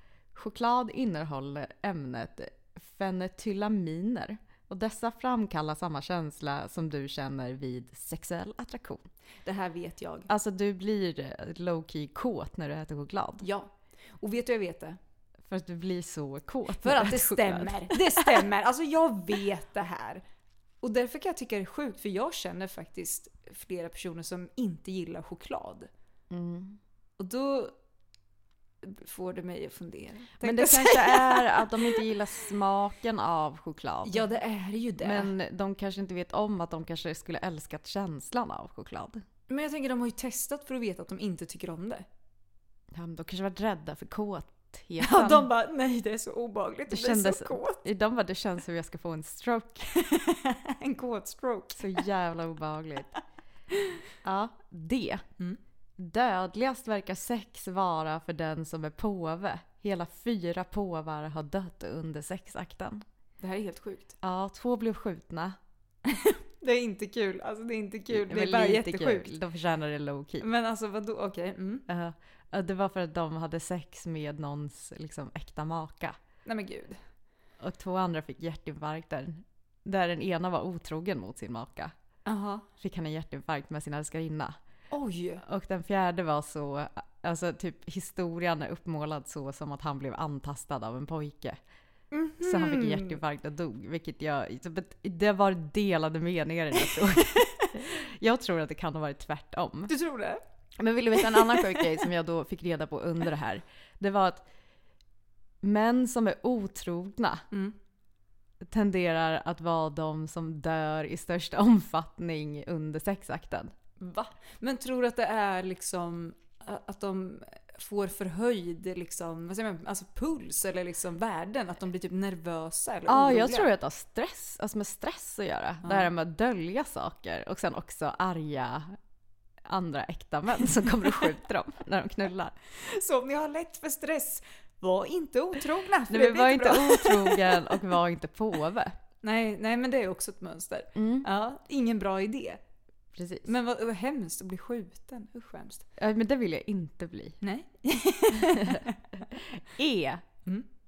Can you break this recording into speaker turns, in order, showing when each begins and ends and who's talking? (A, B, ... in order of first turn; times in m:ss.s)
0:00.3-0:09.0 A
0:09.4-0:10.3 B
0:10.3-0:13.4 A
0:13.4-0:13.7 B
0:14.2-0:15.0 B
0:15.5-0:18.4 A
0:16.8-0:20.2 B
0:20.8-0:25.9 B
0:26.3-0:26.8 A
0:27.2-0:27.7 B
0:28.8-0:32.0 B
0:30.4-0:34.2 A
0:34.0-0:35.3 B
0:35.0-0:39.2 A
0:39.5-0:42.0 B
0:42.9-0:45.5 A
0:45.0-0:47.8 B
0:46.9-0:49.9 A
0:49.9-0:52.0 B
0:51.8-0:53.1 A
0:54.2-0:55.2 A
0:56.0-1:03.0 A
1:03.4-1:04.1 B
1:04.2-1:05.6 A
1:06.1-1:09.3 B
1:08.1-1:10.4 A
1:10.4-1:11.8 B
1:11.9-1:16.2 A
1:16.4-1:17.0 B
1:17.6-1:21.9 A
1:22.2-1:22.6 B
1:22.8-1:24.6 A
1:24.9-1:25.4 B
1:25.4-1:31.6 A
1:32.1-1:33.2 B
1:32.4-1:39.9 A
1:39.9-1:40.4 B
1:40.8-1:44.4 A
1:41.2-1:42.0 B
1:45.6-1:47.4 A
1:48.6-1:53.7 A
1:54.0-2:03.7 B
2:03.1-2:09.0 A
2:05.8-2:06.1 B
2:09.6-2:12.5 A
2:12.7-2:17.8 B
2:16.1-2:19.0 A
2:19.2-2:22.6 B
2:20.9-2:21.3 A
2:23.2-2:23.5 A
2:23.4-2:25.8 B
2:26.0-2:27.4 A
2:27.4-2:28.9 B
2:28.5-2:28.8 A
2:29.4-2:30.2 A